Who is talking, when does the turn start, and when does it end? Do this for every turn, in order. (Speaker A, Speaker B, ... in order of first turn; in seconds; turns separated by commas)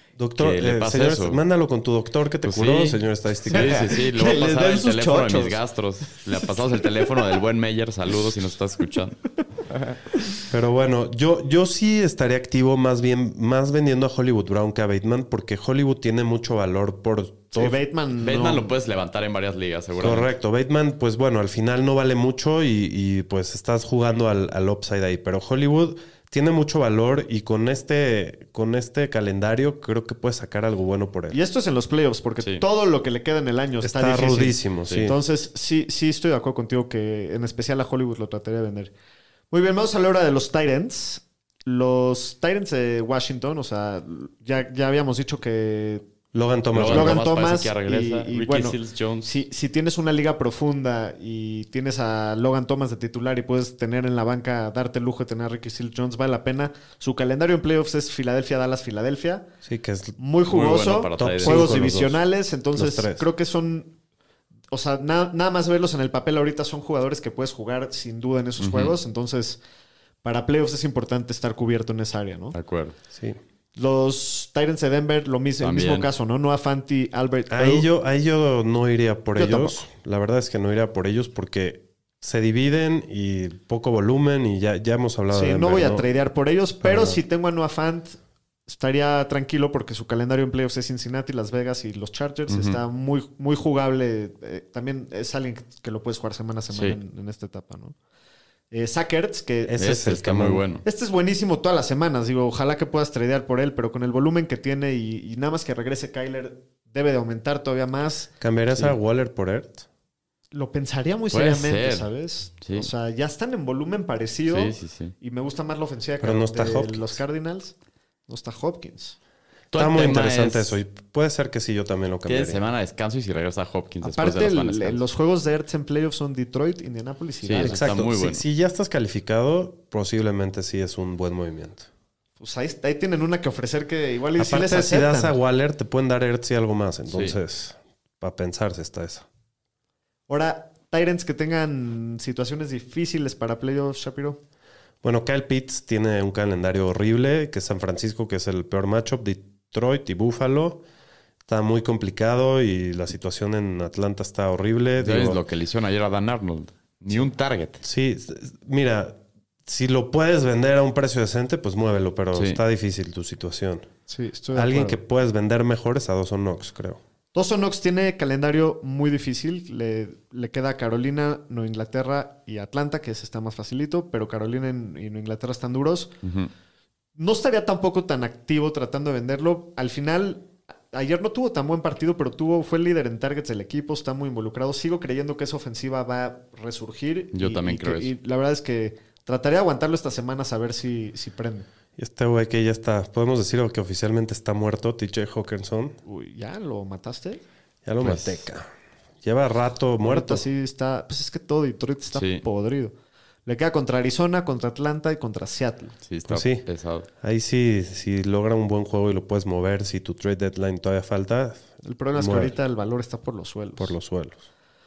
Speaker A: 0.2-3.9, Speaker B: 0.4-1.4, Speaker B: 2.4-9.2, Speaker C: 3.5-5.6, Speaker A: 10.5-17.8, Speaker C: 17.5-18.7, Speaker B: 18.2-20.3, Speaker A: 20.0-31.4, Speaker C: 31.3-38.9, Speaker A: 33.8-35.2, Speaker C: 39.5-46.0, Speaker A: 46.3-47.2, Speaker B: 46.7-49.3, Speaker C: 46.9-59.5, Speaker A: 59.6-60.2, Speaker C: 60.2-63.9, Speaker B: 60.5-61.8, Speaker A: 61.1-62.2, Speaker A: 62.7-63.2, Speaker C: 64.7-69.6, Speaker B: 68.6-68.9, Speaker C: 70.2-72.6, Speaker B: 72.5-72.9, Speaker C: 73.8-77.9, Speaker B: 75.6-76.1, Speaker A: 77.5-86.0, Speaker C: 79.3-79.8, Speaker C: 85.3-97.9, Speaker A: 86.8-87.2, Speaker B: 92.5-92.8, Speaker B: 96.7-97.0, Speaker C: 98.7-99.8, Speaker A: 99.7-100.6, Speaker B: 99.8-100.8, Speaker C: 100.8-108.3, Speaker A: 108.4-109.8, Speaker C: 110.5-117.8, Speaker B: 111.3-112.1, Speaker B: 112.6-112.9, Speaker B: 114.5-115.1, Speaker A: 116.2-117.2, Speaker C: 118.3-119.2, Speaker B: 119.7-120.8, Speaker A: 119.7-122.7, Speaker B: 122.2-125.0, Speaker C: 124.0-127.8, Speaker B: 127.4-128.4, Speaker A: 127.6-131.9, Speaker C: 132.4-135.3, Speaker A: 134.4-139.2, Speaker B: 137.1-137.4, Speaker C: 140.3-144.4, Speaker A: 145.0-150.8, Speaker A: 151.5-155.4, Speaker B: 155.0-157.8, Speaker A: 157.8-163.9, Speaker B: 162.3-162.6, Speaker C: 164.1-165.0, Speaker A: 164.5-167.0, Speaker C: 167.3-176.1, Speaker B: 176.2-176.5, Speaker C: 177.2-191.7, Speaker B: 187.3-188.1, Speaker A: 192.0-196.0, Speaker C: 196.0-197.4, Speaker A: 197.8-198.7, Speaker B: 198.0-198.4, Speaker A: 199.2-200.4, Speaker C: 200.0-202.9, Speaker B: 202.1-202.4, Speaker C: 203.4-205.9, Speaker B: 206.1-207.1, Speaker A: 206.2-206.6, Speaker A: 207.2-212.5, Speaker C: 211.8-213.9, Speaker A: 213.8-214.4